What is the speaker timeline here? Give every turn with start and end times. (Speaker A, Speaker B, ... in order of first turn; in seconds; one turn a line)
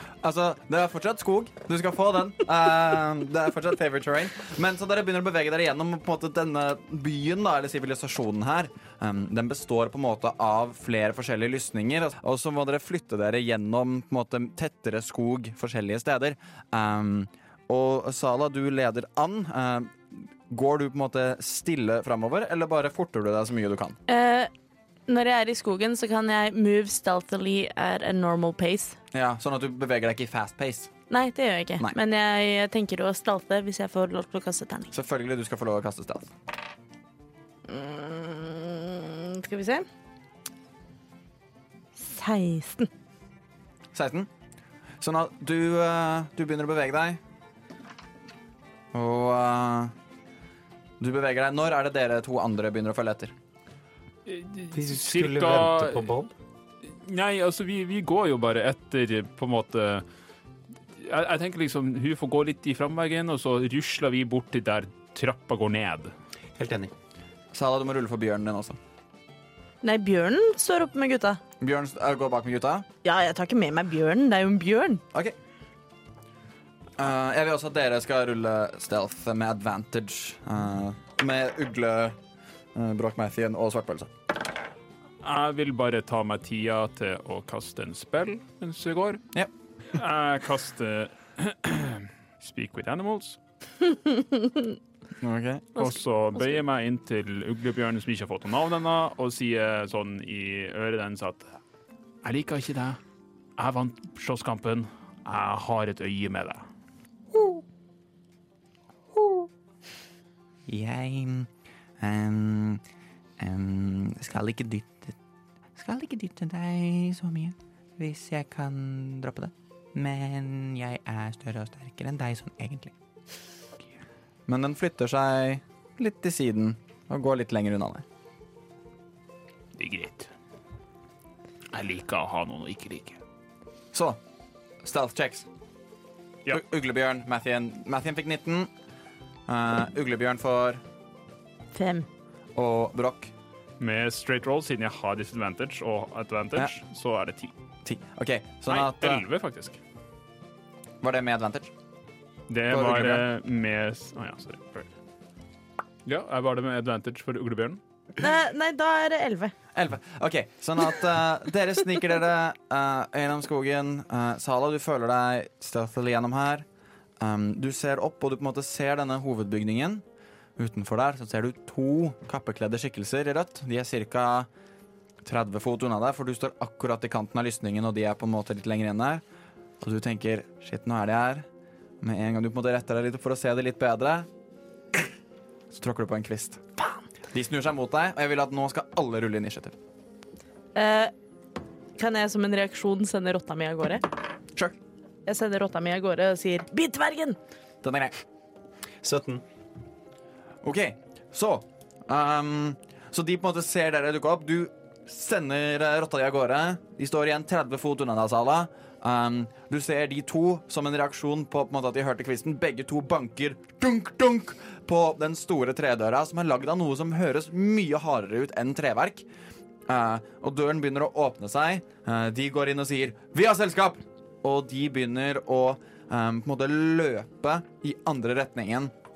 Speaker A: 0.2-24.0
Speaker B: 24.1-24.5
Speaker B: 25.1-29.0
Speaker A: 29.1-30.9
Speaker B: 31.1-34.9
Speaker A: 34.9-36.3
Speaker B: 37.7-39.9
Speaker B: 42.0-42.9
Speaker A: 43.9-44.3
Speaker A: 45.0-47.2
Speaker A: 48.9-49.9
Speaker A: 51.0-53.3
Speaker C: 54.3-56.1
Speaker D: 54.7-56.3
Speaker C: 57.0-60.0
Speaker C: 61.0-66.1
Speaker D: 66.6-66.9
Speaker A: 67.5-68.8
Speaker B: 69.8-71.4
Speaker A: 71.6-72.9
Speaker B: 73.0-75.0
Speaker A: 77.0-82.2
Speaker A: 82.8-84.1
Speaker C: 85.2-89.2
Speaker C: 89.9-93.4
Speaker B: 94.1-94.6
Speaker A: 95.2-95.7
Speaker C: 95.8-101.5
Speaker B: 95.8-96.6
Speaker C: 102.2-103.0
Speaker C: 103.6-106.6
Speaker E: 110.7-111.5
Speaker E: 112.0-112.8
Speaker E: 113.4-115.2
Speaker E: 115.8-122.9
Speaker A: 124.5-128.0
Speaker C: 129.8-130.3
Speaker C: 131.7-133.2
Speaker A: 133.9-134.2
Speaker A: 134.8-135.5
Speaker A: 136.5-138.7
Speaker A: 139.5-140.8
Speaker B: 141.7-142.1
Speaker A: 142.6-143.3
Speaker C: 143.8-147.5
Speaker A: 147.8-149.2
Speaker C: 148.7-149.8
Speaker A: 151.0-151.7
Speaker C: 152.5-154.9
Speaker A: 152.7-153.2
Speaker C: 156.1-157.8
Speaker B: 158.2-159.5
Speaker A: 159.7-166.7
Speaker A: 167.2-170.0
Speaker A: 170.6-174.5
Speaker A: 175.2-179.2
Speaker A: 179.8-181.5
Speaker A: 182.0-184.3
Speaker A: 185.7-186.6
Speaker A: 187.3-189.8
Speaker B: 190.8-191.1
Speaker B: 192.0-194.1
Speaker B: 195.3-197.4
Speaker A: 197.8-198.2
Speaker D: 199.0-199.4
Speaker A: 200.6-219.2
Speaker A: 219.9-228.9